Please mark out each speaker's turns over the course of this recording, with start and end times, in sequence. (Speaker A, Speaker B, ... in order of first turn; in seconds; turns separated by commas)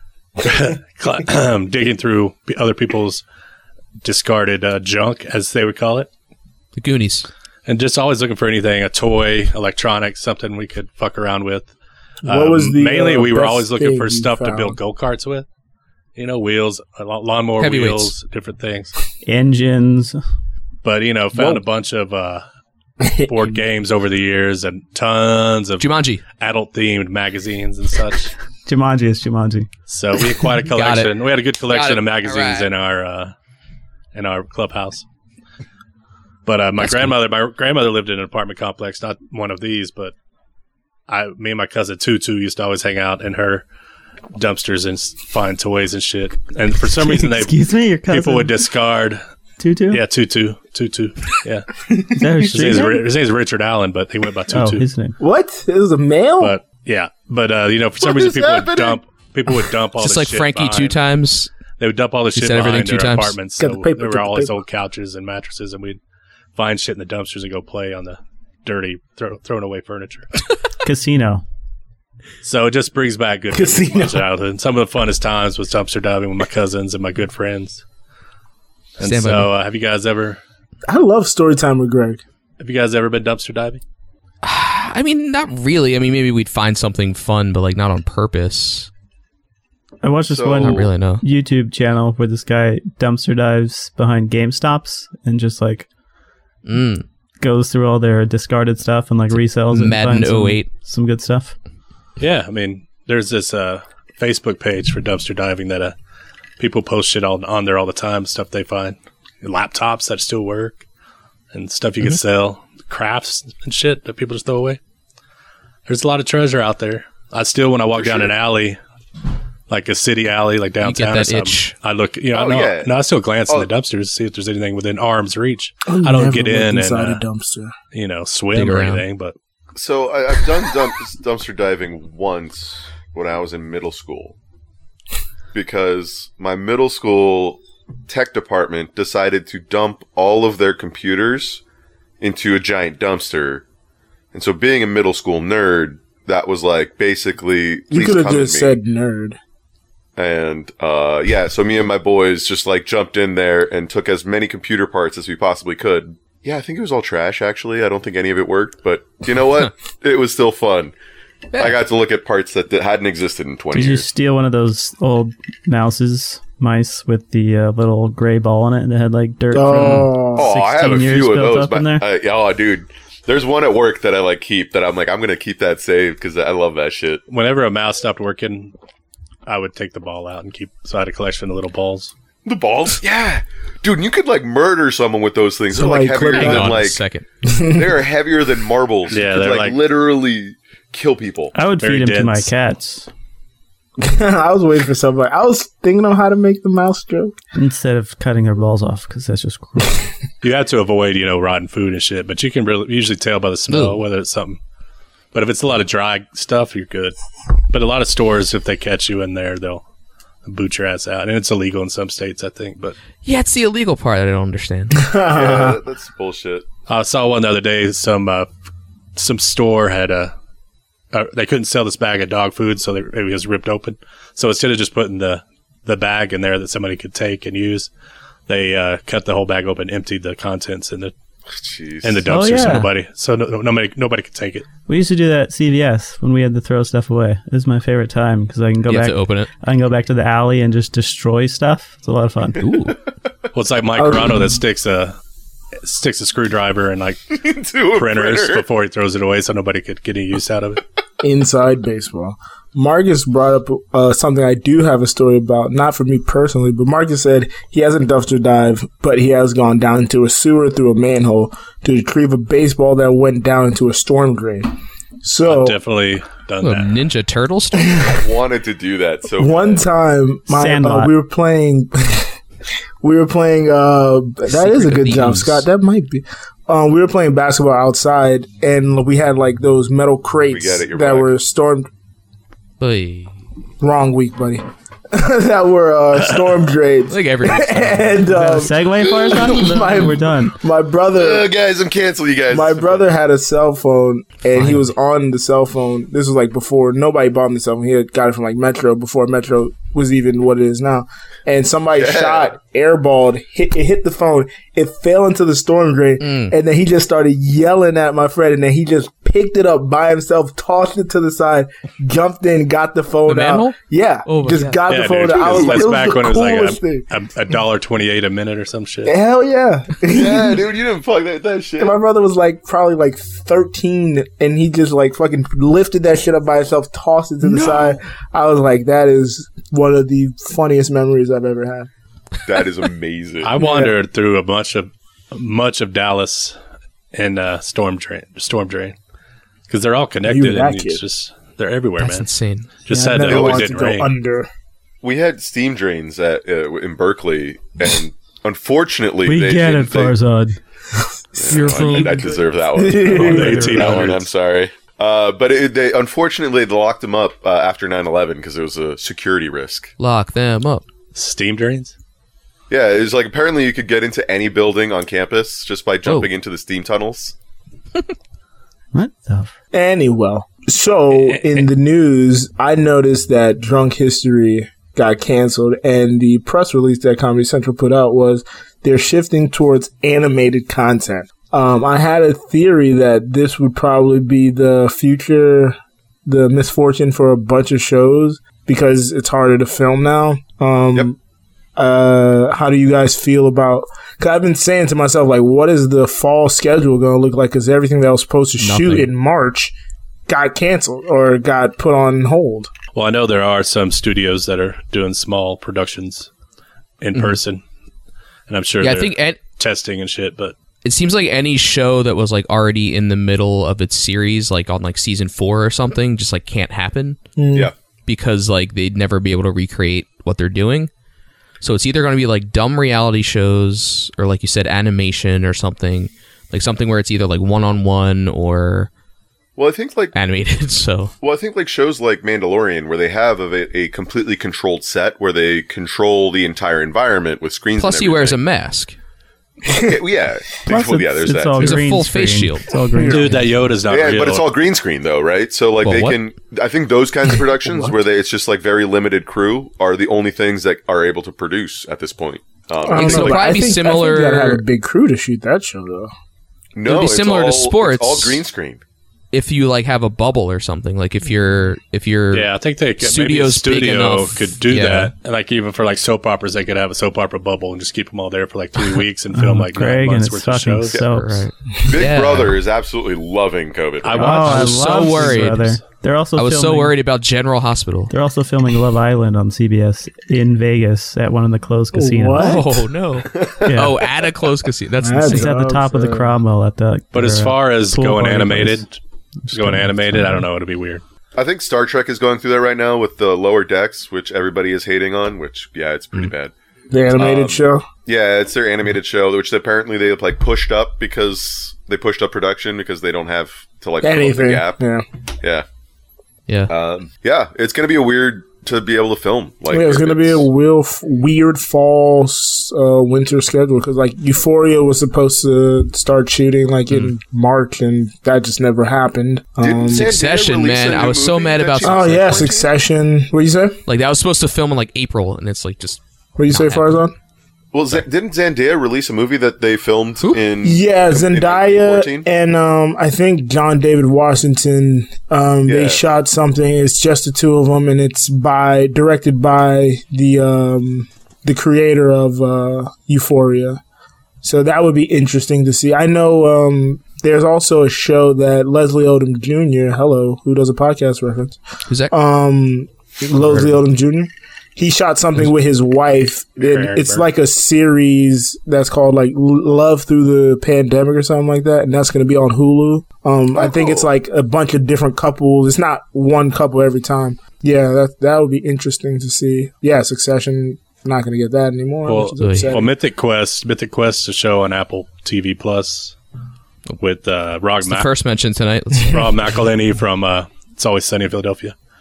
Speaker A: 0.4-3.2, Speaker A: 4.0-6.1, Speaker B: 6.8-7.3, Speaker A: 7.7-11.7, Speaker C: 12.3-14.8, Speaker A: 12.3-15.5, Speaker A: 16.2-18.9, Speaker B: 17.6-18.1, Speaker D: 19.2-20.2, Speaker A: 20.8-22.4, Speaker C: 21.4-21.6, Speaker C: 23.0-23.6, Speaker A: 23.3-28.3, Speaker B: 25.8-26.2, Speaker D: 28.7-29.7, Speaker A: 29.9-33.3, Speaker B: 30.7-32.7, Speaker A: 34.1-35.0, Speaker A: 36.5-40.1, Speaker B: 36.8-37.2, Speaker A: 41.1-43.6, Speaker A: 44.4-49.2, Speaker D: 47.1-48.6, Speaker D: 49.6-50.0, Speaker A: 49.9-51.7, Speaker D: 52.2-53.1, Speaker A: 52.4-54.9, Speaker D: 54.5-55.2, Speaker C: 55.2-56.6, Speaker A: 56.4-61.0, Speaker E: 58.0-59.0, Speaker B: 60.0-61.5, Speaker A: 61.8-66.0, Speaker B: 62.3-63.4, Speaker C: 63.6-64.6, Speaker A: 66.5-70.3, Speaker D: 70.8-71.4, Speaker A: 72.4-77.8, Speaker C: 73.5-74.3, Speaker A: 79.0-80.4, Speaker B: 79.0-79.5, Speaker C: 80.9-82.2, Speaker A: 82.6-83.8, Speaker B: 84.4-88.9, Speaker D: 90.0-95.9, Speaker E: 90.2-90.9, Speaker B: 90.6-91.2, Speaker B: 96.7-97.0, Speaker D: 97.4-101.5, Speaker B: 99.7-100.7, Speaker A: 102.2-106.0, Speaker A: 106.6-110.8, Speaker A: 111.5-114.8, Speaker A: 115.9-118.8, Speaker E: 118.0-118.3, Speaker A: 119.7-127.2, Speaker B: 120.8-121.8, Speaker E: 122.3-122.9, Speaker C: 125.9-127.7, Speaker A: 127.9-129.3, Speaker B: 128.5-129.1, Speaker E: 129.8-134.3, Speaker E: 135.5-141.6, Speaker E: 142.2-143.6, Speaker E: 144.3-148.8, Speaker C: 147.9-149.4, Speaker E: 150.2-160.9, Speaker B: 161.5-161.8, Speaker E: 161.5-164.1, Speaker D: 163.7-172.1, Speaker C: 169.5-170.5, Speaker B: 169.7-170.1, Speaker E: 170.3-177.2, Speaker A: 177.3-178.7, Speaker A: 179.5-182.1, Speaker E: 182.4-187.0, Speaker C: 185.7-186.9, Speaker B: 186.2-187.2, Speaker C: 187.4-187.9, Speaker E: 187.7-191.5, Speaker A: 189.1-189.8, Speaker D: 191.6-193.1, Speaker A: 191.8-192.5, Speaker C: 194.0-197.3, Speaker D: 197.6-200.1, Speaker A: 200.4-204.6, Speaker B: 203.7-204.0, Speaker A: 205.3-207.2, Speaker A: 207.7-209.8, Speaker A: 210.4-213.0, Speaker B: 213.2-215.0, Speaker C: 215.0-215.8, Speaker E: 215.3-216.7, Speaker A: 216.9-218.5, Speaker A: 219.2-220.3, Speaker A: 221.1-227.9, Speaker A: 228.5-231.1, Speaker E: 231.5-232.3, Speaker A: 232.0-234.7, Speaker D: 232.3-232.9, Speaker D: 234.9-242.6, Speaker B: 238.9-239.5, Speaker B: 242.6-243.0, Speaker A: 243.5-245.2, Speaker C: 244.0-244.6, Speaker A: 245.8-247.4, Speaker E: 247.3-248.7, Speaker A: 247.9-250.8, Speaker C: 251.2-264.7, Speaker C: 265.2-265.8, Speaker A: 265.5-266.9, Speaker B: 266.6-268.1, Speaker E: 268.1-269.9, Speaker C: 269.4-272.3, Speaker D: 270.5-271.1, Speaker C: 273.0-281.9, Speaker B: 274.5-275.7, Speaker E: 280.5-281.3, Speaker B: 282.8-283.4, Speaker C: 283.8-291.5, Speaker B: 287.1-288.2, Speaker D: 288.3-290.6, Speaker E: 289.0-289.6, Speaker E: 291.1-293.1, Speaker C: 292.5-317.1, Speaker B: 294.5-294.9, Speaker E: 301.9-302.5, Speaker B: 306.2-306.5, Speaker B: 313.3-315.0, Speaker A: 314.9-319.1, Speaker E: 315.3-315.9, Speaker C: 319.1-320.6, Speaker E: 320.1-322.0, Speaker C: 321.8-331.9, Speaker B: 327.4-327.9, Speaker E: 332.4-333.5, Speaker A: 333.4-336.6, Speaker C: 333.6-334.0, Speaker A: 337.1-339.0, Speaker A: 339.7-342.3, Speaker C: 340.2-341.0, Speaker B: 342.0-342.7, Speaker A: 342.8-344.1, Speaker C: 342.9-344.5, Speaker E: 343.2-343.9, Speaker E: 345.0-350.2, Speaker D: 349.2-350.6, Speaker C: 351.4-352.2, Speaker E: 351.4-359.9, Speaker B: 351.5-352.3, Speaker C: 352.7-354.0, Speaker A: 353.1-354.2, Speaker B: 353.6-354.1, Speaker B: 360.0-360.9, Speaker A: 361.1-361.9, Speaker E: 362.7-367.4, Speaker D: 368.9-369.5, Speaker C: 369.7-391.2, Speaker A: 371.1-371.7, Speaker C: 391.8-399.8, Speaker B: 398.6-399.1, Speaker C: 400.3-402.7, Speaker A: 402.9-406.3, Speaker A: 407.0-407.6, Speaker A: 408.5-410.6, Speaker B: 408.8-409.4, Speaker B: 410.8-417.2, Speaker C: 417.4-417.7, Speaker B: 418.1-420.9, Speaker B: 421.6-428.9, Speaker E: 429.6-430.1, Speaker B: 430.1-431.1, Speaker E: 431.2-438.4, Speaker B: 437.8-439.0, Speaker E: 439.7-441.8, Speaker D: 440.7-443.6, Speaker B: 441.6-442.7, Speaker C: 442.9-443.3, Speaker A: 443.0-444.5, Speaker E: 443.9-453.6, Speaker B: 445.8-446.2, Speaker C: 452.8-456.1, Speaker B: 452.9-454.6, Speaker E: 456.8-458.8, Speaker B: 456.9-458.4, Speaker B: 459.3-465.1, Speaker A: 462.3-471.0, Speaker D: 469.3-471.4, Speaker B: 471.1-472.6, Speaker E: 471.9-474.3, Speaker A: 474.0-475.6, Speaker D: 474.1-476.9, Speaker B: 474.4-475.8, Speaker B: 476.4-478.1, Speaker D: 478.1-482.7, Speaker C: 481.9-482.9, Speaker B: 482.4-485.5, Speaker E: 483.3-483.9, Speaker D: 483.7-484.0, Speaker C: 485.0-486.4, Speaker D: 485.2-488.9, Speaker A: 487.1-489.0, Speaker D: 489.4-490.4, Speaker A: 489.5-491.0, Speaker E: 491.4-496.5, Speaker C: 496.9-497.9, Speaker E: 497.1-504.8, Speaker C: 504.0-505.1, Speaker E: 506.7-510.5, Speaker C: 509.7-520.1, Speaker E: 519.6-522.7, Speaker B: 519.9-522.6, Speaker C: 521.8-523.8, Speaker B: 523.9-527.0, Speaker C: 526.4-527.1, Speaker E: 527.7-532.3, Speaker C: 530.6-543.8, Speaker E: 535.6-536.0, Speaker C: 544.4-551.6, Speaker B: 551.9-552.1, Speaker C: 552.1-573.0, Speaker B: 553.5-553.7, Speaker A: 556.6-557.3, Speaker E: 563.5-564.1, Speaker A: 572.0-576.1, Speaker B: 572.4-572.8, Speaker A: 577.0-578.1, Speaker B: 577.8-579.2, Speaker A: 579.0-581.8